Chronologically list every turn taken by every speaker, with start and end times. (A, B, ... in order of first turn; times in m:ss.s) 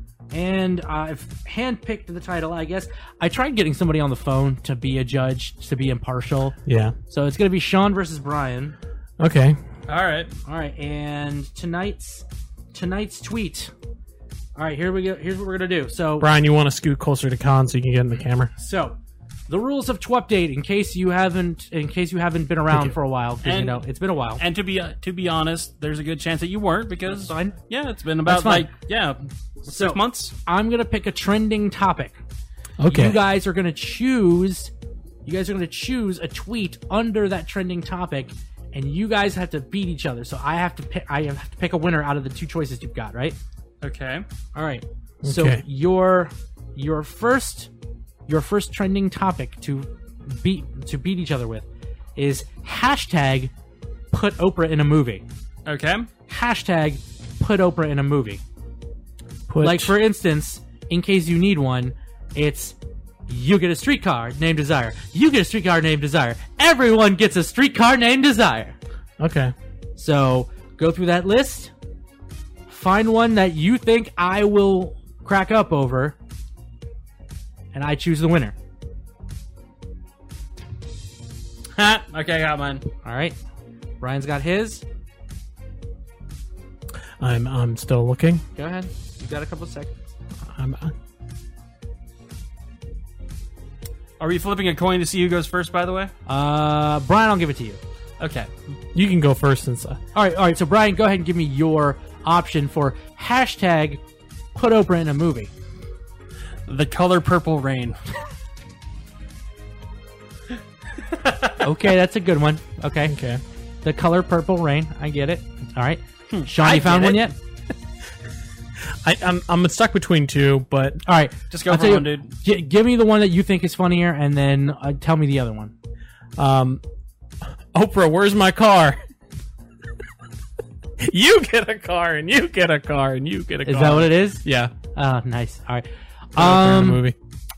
0:00.3-0:06.6 A
0:06.6-0:06.9 B
0:07.1-0:08.8 A
0:09.2-0:09.6 B
0:09.9-0:10.3 C
0:10.4-0:13.7 A
0:14.6-0:16.3 A
0:16.2-0:18.5 B
0:18.6-0:19.0 A
0:19.5-0:24.4 A
0:23.4-0:23.8 C
0:24.4-0:30.3 C
0:27.0-0:27.6 A
0:28.2-0:28.7 A
0:29.6-0:32.2 A
0:32.8-0:33.2 B
0:32.9-0:34.7 A
0:35.2-0:43.4 A
0:43.8-0:44.2 C
0:44.5-0:47.7 A
0:45.2-0:45.6 B
0:48.3-0:53.5 A
0:54.1-0:55.2 A
0:55.6-0:56.1 C
0:56.3-0:58.4 A
0:59.5-0:59.9 B
0:59.6-1:02.7 A
1:03.3-1:08.8 A
1:09.2-1:09.5 B
1:10.0-1:11.7 A
1:12.7-1:16.2 A
1:17.7-1:18.5 A
1:21.8-1:22.8 C
1:23.0-1:23.4 A
1:24.0-1:24.8 A
1:27.2-1:28.4 B
1:28.6-1:30.1 A
1:30.5-1:30.9 B
1:34.2-1:36.1 C
1:36.2-1:37.8 A
1:38.2-1:38.5 C
1:38.9-1:40.0 B
1:40.1-1:44.0 A
1:44.5-1:45.5 A
1:46.7-1:48.0 C
1:51.2-1:51.6 C
1:51.6-1:53.1 A
1:53.0-1:53.4 B
1:53.8-1:57.4 A
1:56.3-1:57.3 C
1:59.0-2:01.0 B
2:01.0-2:05.7 A
2:01.5-2:02.3 C
2:06.4-2:06.8 B
2:07.7-2:09.0 B
2:11.0-2:14.7 B
2:13.6-2:17.1 A
2:16.4-2:17.2 B